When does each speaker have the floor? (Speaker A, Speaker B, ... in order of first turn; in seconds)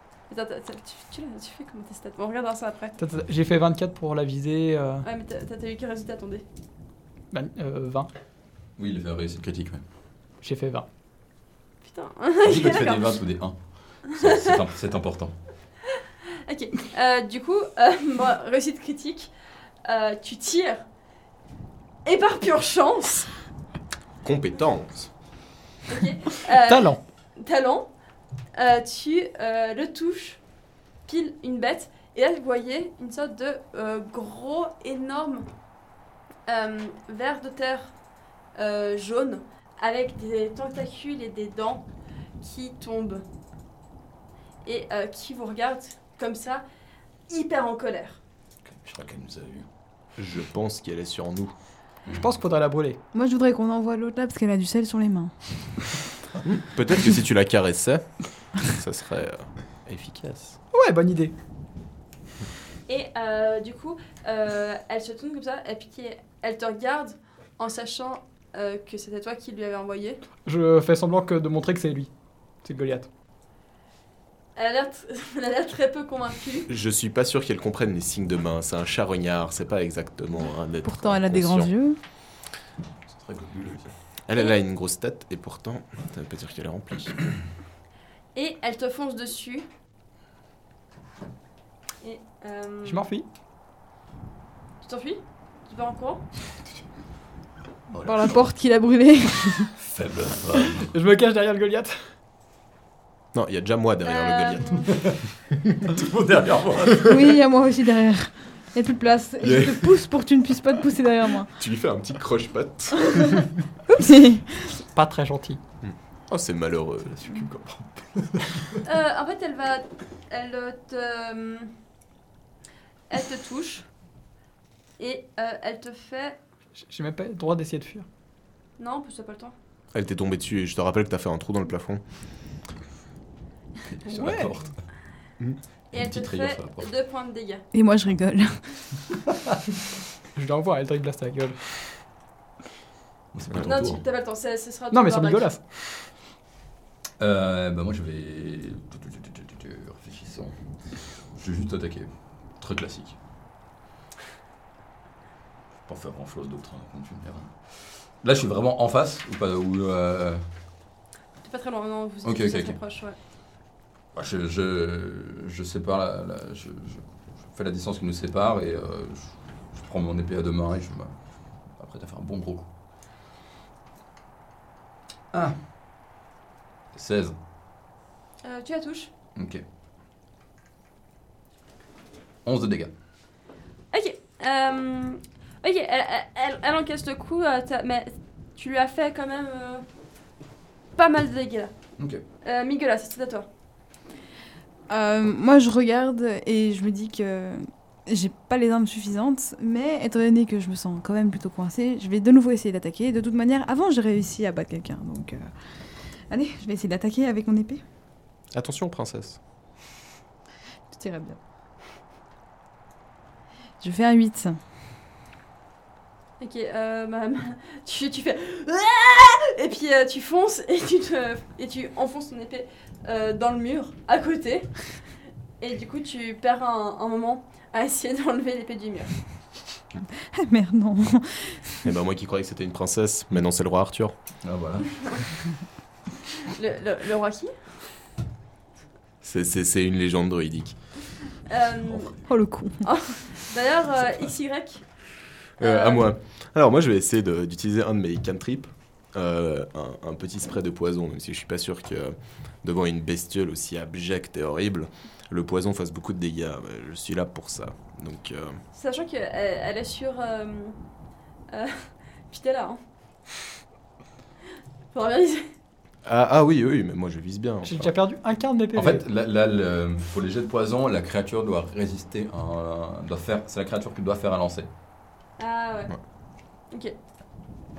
Speaker A: 0.3-2.9, 5.0-6.4, 11.8-13.2, 14.2-14.5, 16.4-19.3, 19.8-20.8, 22.0-23.3, 25.9-27.9, 28.5-30.4, 31.0-35.5, 36.5-37.9, 38.5-41.9, 42.4-43.2, 44.6-46.6, 47.3-48.2, 62.9-70.2, 74.5-76.7, 88.3-89.7, 92.0-93.0, 94.8-96.2, 104.0-104.9, 118.8-121.7, 123.1-123.8, 125.0-126.4, 128.8-129.5, 135.9-137.6, 143.6-145.5, 161.4-163.2, 178.4-179.1, 183.9-189.8, 190.9-191.7, 192.4-193.5, 216.4-224.7, 225.6-229.1, 236.4-237.5, 241.5-242.1, 242.8-244.8, 245.6-246.1, 258.7-260.8, 261.5-262.8, 264.9-265.5, 275.4-275.9
Speaker B: 3.0-5.0, 7.3-8.1, 10.4-10.8, 26.6-27.0, 52.1-53.0, 60.7-61.3, 70.5-72.1, 72.6-73.1, 92.8-93.2, 100.8-102.0, 114.9-115.6, 126.8-128.1, 134.1-134.5, 140.3-141.6, 144.9-145.6, 267.6-269.0
Speaker C: 8.8-9.8, 12.4-15.3, 48.6-49.7, 83.1-83.9, 97.9-98.5, 99.7-100.9, 104.9-105.2, 105.8-107.3, 117.0-118.8, 133.8-134.8, 135.9-136.9, 143.3-144.0, 147.2-153.2, 155.8-160.4, 162.2-162.8, 164.1-172.7, 175.3-175.6, 176.9-177.3, 179.3-179.6, 182.4-182.9, 234.4-235.2, 241.8-242.2, 268.7-274.7
Speaker D: 24.2-25.1, 50.2-51.5, 56.4-58.0, 58.6-60.6, 76.7-81.7, 84.3-87.4, 103.3-105.0, 109.4-110.0, 111.6-113.5, 115.8-117.2, 129.9-132.0, 143.5-143.9, 208.5-209.4, 231.8-234.1, 239.2-240.7, 245.6-258.6, 266.0-267.9
Speaker E: 53.1-55.5, 80.8-82.0, 98.0-99.7, 107.0-111.5, 113.9-114.8, 137.7-138.8, 194.9-205.5, 206.3-207.8, 210.9-211.4, 213.8-214.6, 230.3-231.8, 242.3-242.9